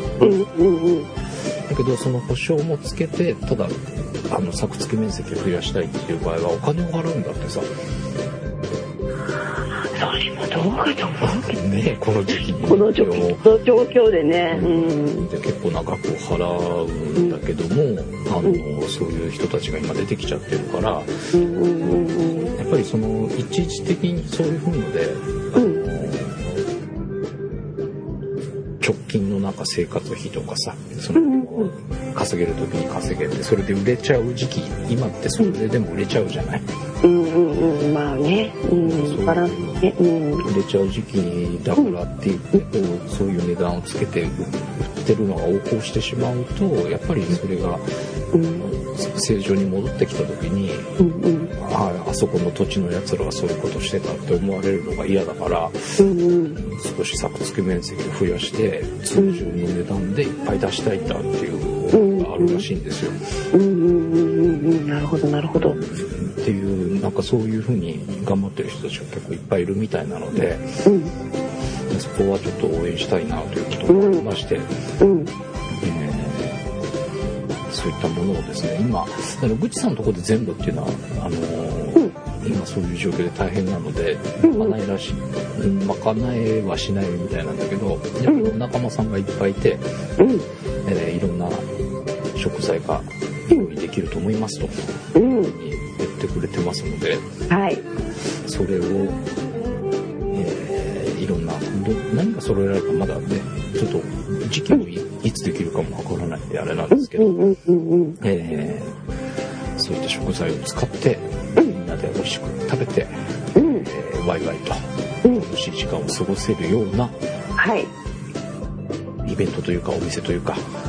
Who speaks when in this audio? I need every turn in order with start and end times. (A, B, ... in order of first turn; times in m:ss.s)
0:00.2-0:01.1 A
0:01.7-0:07.7 B
0:09.9-0:11.6 A
0:11.2-0:13.4 B
0:12.6-0:15.3 A
0:14.5-0:21.1 B
0:21.3-0:22.5 A
0:22.5-0:26.6 B
0:28.8-0:36.6 B
0:31.2-0:31.7 A
0:37.0-0:40.5 A
0:38.8-0:39.8 B
0:40.4-0:47.8 B
0:48.3-0:48.7 A
0:48.7-0:50.9 B
0:51.0-0:51.5 A
0:51.6-0:56.0 B
0:56.0-0:56.6 A
0:56.6-1:03.2 B
0:59.2-0:59.4 A
1:01.9-1:02.6 A
1:03.5-1:05.8 A
1:05.5-1:10.6 B
1:10.8-1:11.1 A
1:11.9-1:14.7 B
1:13.9-1:14.2 A
1:15.0-1:15.3 A
1:15.8-1:16.6 B
1:17.7-1:29.8 B
1:24.4-1:24.8 A
1:28.3-1:28.5 A
1:30.2-1:30.5 A
1:30.8-1:31.6 B
1:32.4-1:34.7 B
1:35.1-1:35.5 A
1:35.2-1:37.2 B
1:37.5-1:37.8 A
1:38.4-1:39.2 B
1:40.3-1:47.4 B
1:46.9-1:48.2 A
1:48.2-1:49.0 B
1:49.8-1:53.1 B
1:53.5-1:53.9 A
1:53.7-1:57.2 B
1:57.6-1:57.9 A
1:59.2-2:00.6 B